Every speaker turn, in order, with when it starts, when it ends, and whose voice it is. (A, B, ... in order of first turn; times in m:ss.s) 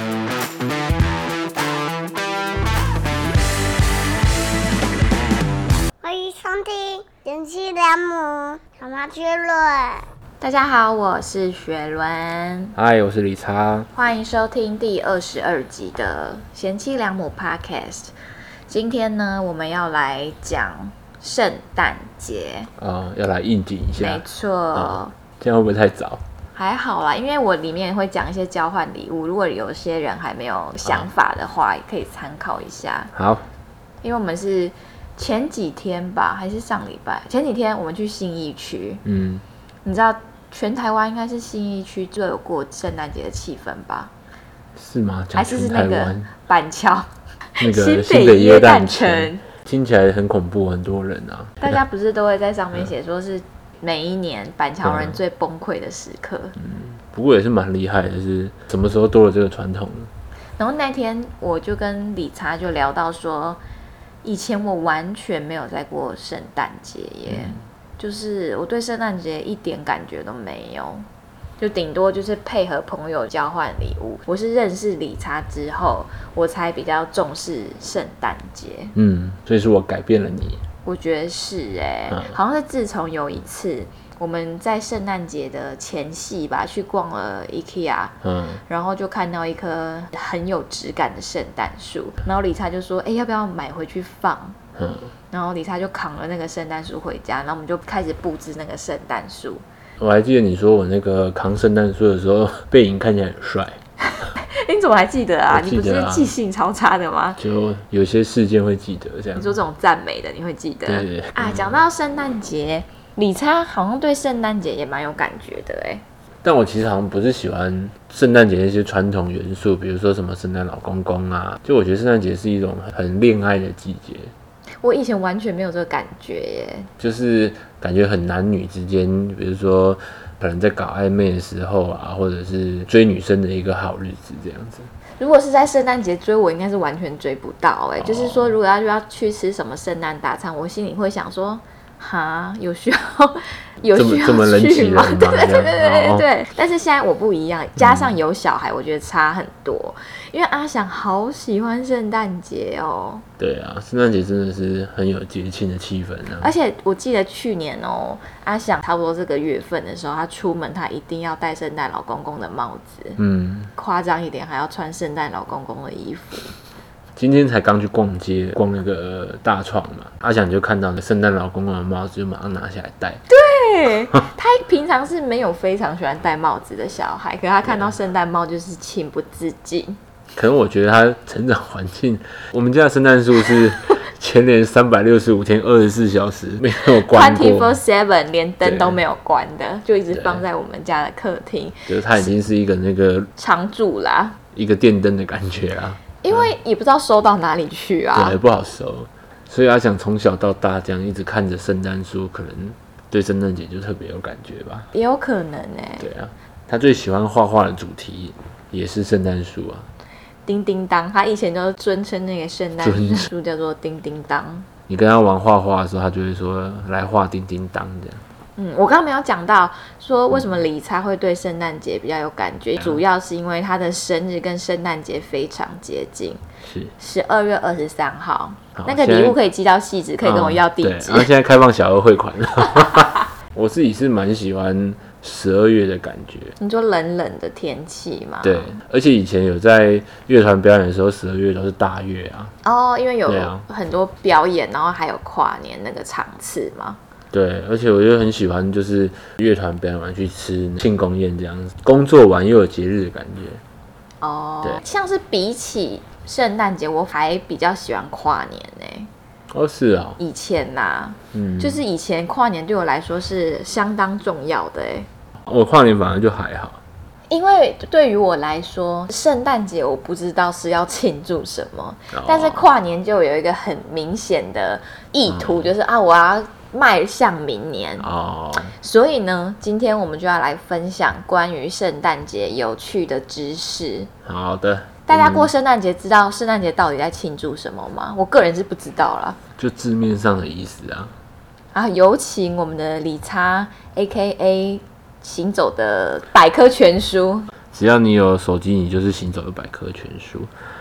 0:06.0-0:10.1 A
0:10.4-0:12.7 B
0:12.7-0:13.9 C
0:13.9-0:18.1 B
0:18.7-0:22.7 B
0:22.8-0:24.2 C
0:24.0-0:25.1 B
0:24.7-0:26.2 C
0:26.5-0:33.1 B
0:33.1-0:33.4 C
0:34.0-0:39.0 B
0:39.0-0:39.4 C
0:39.8-0:44.1 B
0:44.8-0:46.3 C
0:45.3-0:49.4 B
0:47.6-0:51.7 C
0:51.6-0:56.5 B
0:54.8-0:55.2 C
0:56.6-1:00.1 C
1:00.6-1:03.6 B
1:04.2-1:11.0 B
1:07.3-1:07.6 C
1:11.6-1:18.9 B
1:18.9-1:20.6 C
1:20.8-1:34.6 B
1:28.2-1:28.6 C
1:34.8-1:35.1 C
1:35.3-1:39.6 B
1:40.0-1:43.8 C
1:44.3-1:47.4 B
1:45.5-1:46.3 C
1:47.4-1:49.6 C
1:49.4-1:56.0 B
1:50.9-1:51.8 C
1:56.4-2:04.3 C
2:04.8-2:06.9 B
2:07.0-2:14.9 C
2:15.2-2:33.2 B
2:18.0-2:18.5 C
2:23.9-2:26.2 C
2:27.8-2:28.1 C
2:33.4-2:36.5 C
2:36.4-2:43.2 B
2:43.2-2:43.7 C
2:43.8-2:46.5 B
2:47.2-2:53.2 C
2:53.3-3:00.0 B
3:00.4-3:07.8 C
3:07.0-3:12.3 B
3:08.6-3:09.0 C
3:10.1-3:10.4 C
3:11.9-3:13.3 C
3:13.4-3:14.4 B
3:14.5-3:16.5 C
3:16.2-3:18.4 B
3:18.1-3:24.9 C
3:24.9-3:26.1 B
3:26.0-3:29.9 C
3:30.4-3:34.7 B
3:32.8-3:33.3 C
3:34.9-3:38.2 C
3:38.6-3:46.4 B
3:46.6-3:46.9 C
3:47.0-3:51.3 B
3:48.8-3:49.4 C
3:50.2-3:56.5 C
3:56.6-3:58.7 B
3:58.4-4:02.5 C
4:02.6-4:07.0 B
4:03.3-4:03.6 C
4:07.3-4:13.6 C
4:14.2-4:19.1 B
4:19.5-4:20.2 C
4:20.2-4:25.1 B
4:21.3-4:21.8 C
4:25.4-4:26.8 C
4:27.3-4:38.1 B
4:32.1-4:32.6 C
4:35.3-4:35.7 C
4:38.0-4:38.7 C
4:38.8-4:44.1 B
4:44.2-4:45.5 C
4:45.1-4:49.4 B
4:49.6-4:51.1 C
4:51.7-4:57.5 B
4:57.7-5:00.5 C